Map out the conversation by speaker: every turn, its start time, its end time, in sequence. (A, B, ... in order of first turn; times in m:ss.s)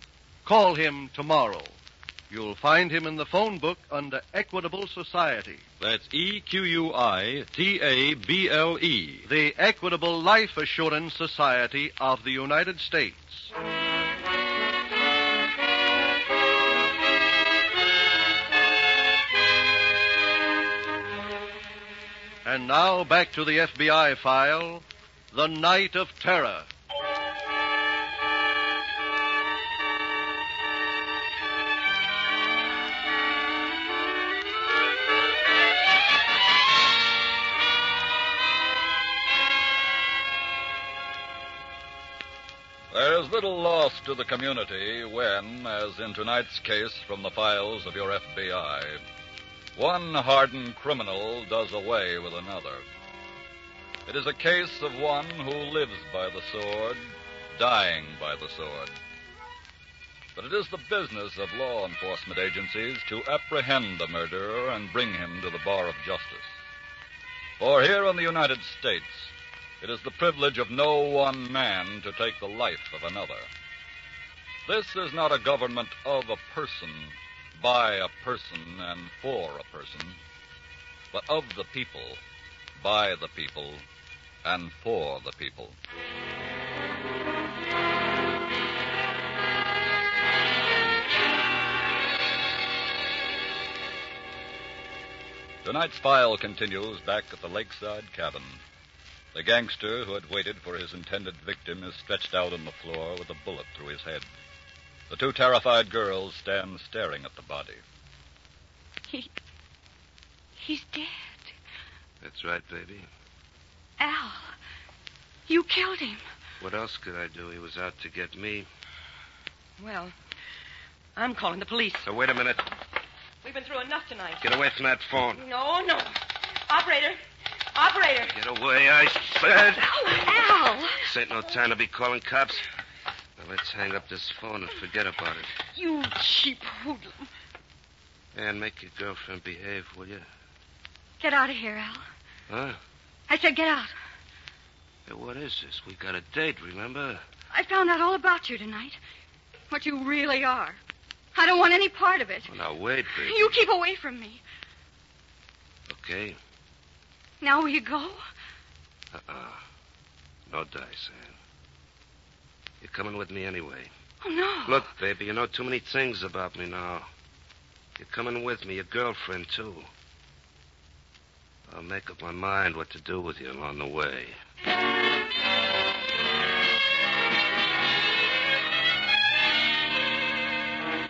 0:00.4-0:01.8 A
0:02.3-0:05.6 A
0:05.8-0:09.3 B
0:09.2-0:13.5 A
0:22.4-0:26.7 A
0:42.9-0:49.0 C
0:49.8-0:52.8 C
0:54.1-0:57.0 C
0:57.6-0:58.9 C
1:00.4-1:06.5 C
1:07.6-1:13.5 C
1:14.7-1:20.2 C
1:21.1-1:22.2 C
1:22.8-1:23.8 C
1:24.4-1:25.8 C
1:35.6-1:38.6 C
1:39.3-1:44.2 C
1:45.1-1:47.8 C
1:50.6-1:51.5 D
1:52.2-1:53.1 E
1:54.0-1:54.5 D
1:55.5-1:56.2 D
1:56.6-1:58.7 E
1:59.8-2:00.1 F
2:01.2-2:02.0 F
2:02.0-2:02.6 E
2:03.4-2:04.5 F
2:04.4-2:05.4 E
2:05.3-2:06.2 F
2:06.7-2:07.2 F
2:07.8-2:08.3 F
2:08.3-2:10.0 E
2:09.8-2:11.0 D
2:11.0-2:12.6 E
2:13.4-2:15.5 E
2:15.8-2:17.1 F
2:18.3-2:20.3 E
2:21.2-2:22.0 D
2:22.5-2:22.8 E
2:23.3-2:23.9 D
2:25.1-2:27.2 E
2:27.5-2:29.0 D
2:29.7-2:30.8 D
2:31.4-2:32.5 D
2:32.5-2:33.6 E
2:33.1-2:34.4 D
2:35.9-2:36.4 E
2:37.4-2:38.2 D
2:39.1-2:39.6 E
2:40.5-2:41.4 E
2:42.8-2:43.9 E
2:44.2-2:44.9 D
2:44.7-2:47.1 E
2:48.0-2:49.9 E
2:51.7-2:54.4 E